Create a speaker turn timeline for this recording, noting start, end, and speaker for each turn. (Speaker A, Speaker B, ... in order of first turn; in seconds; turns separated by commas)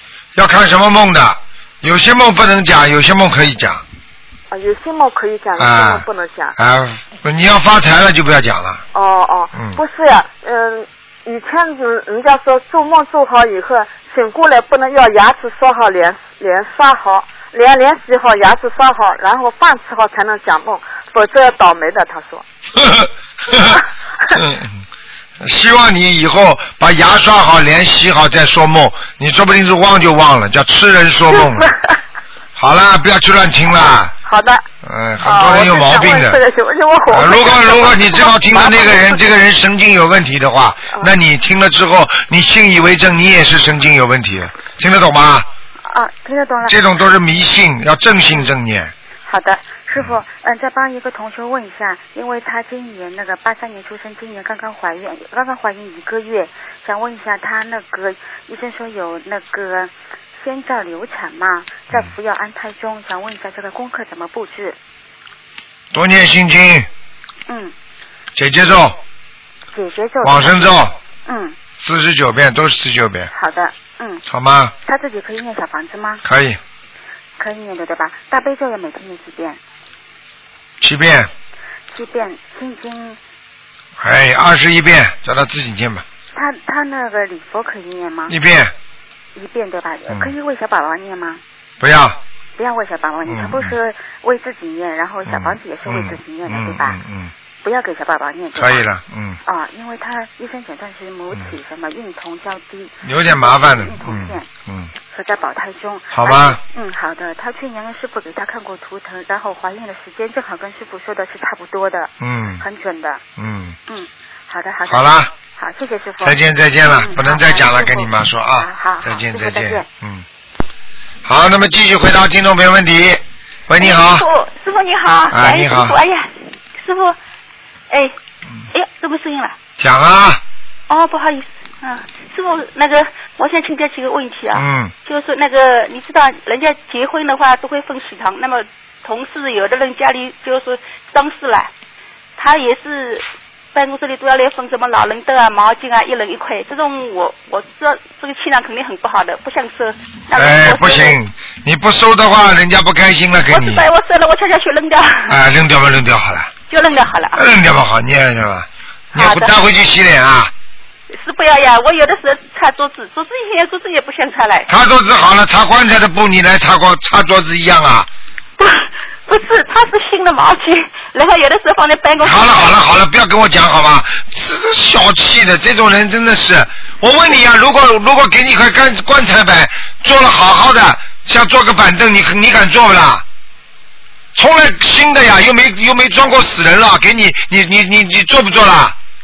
Speaker A: 0.3-3.8, Speaker B: 4.5-6.5, Speaker A: 5.6-8.8, Speaker B: 8.9-22.4, Speaker A: 22.8-23.8, Speaker B: 23.7-24.4, Speaker A: 24.3-24.8, Speaker A: 25.4-31.7, Speaker B: 31.3-32.0, Speaker A: 32.6-34.1, Speaker B: 34.2-34.7, Speaker A: 34.8-36.4, Speaker B: 35.2-39.3, Speaker A: 37.1-45.5, Speaker C: 45.8-46.9, Speaker A: 46.7-48.9, Speaker C: 49.2-64.8, Speaker A: 65.9-66.9, Speaker C: 67.5-67.7, Speaker A: 68.4-69.0, Speaker C: 69.7-71.6, Speaker A: 70.2-71.0, Speaker A: 71.8-73.3, Speaker C: 73.3-74.2, Speaker A: 74.3-74.7, Speaker C: 74.8-76.2, Speaker A: 76.2-76.6, Speaker C: 77.4-79.6, Speaker A: 80.8-81.3, Speaker C: 81.9-83.2, Speaker A: 84.0-86.0, Speaker C: 86.3-88.4, Speaker A: 88.3-88.7, Speaker C: 89.3-91.4, Speaker A: 91.8-92.2, Speaker C: 92.6-97.0, Speaker A: 93.2-93.7, Speaker A: 95.3-97.3, Speaker C: 97.6-98.9, Speaker A: 98.5-99.4, Speaker C: 99.5-104.5, Speaker A: 103.0-104.9, Speaker C: 105.1-113.2, Speaker A: 106.1-106.6, Speaker A: 112.2-112.6, Speaker A: 113.4-113.8, Speaker C: 113.9-119.9, Speaker A: 114.9-115.3, Speaker A: 116.2-120.2, Speaker A: 121.2-124.3, Speaker D: 123.8-127.2, Speaker A: 125.3-126.0, Speaker D: 127.9-128.2, Speaker D: 128.7-129.6, Speaker A: 129.8-130.4, Speaker D: 130.9-141.7, Speaker A: 134.5-134.9, Speaker D: 142.4-151.2, Speaker A: 150.3-153.9, Speaker D: 153.5-155.4, Speaker A: 155.3-156.5, Speaker D: 156.7-157.5, Speaker A: 157.3-160.5, Speaker D: 159.2-159.6, Speaker D: 161.1-164.7, Speaker A: 164.7-168.1, Speaker D: 168.6-172.7, Speaker A: 172.2-183.2, Speaker A: 184.3-189.0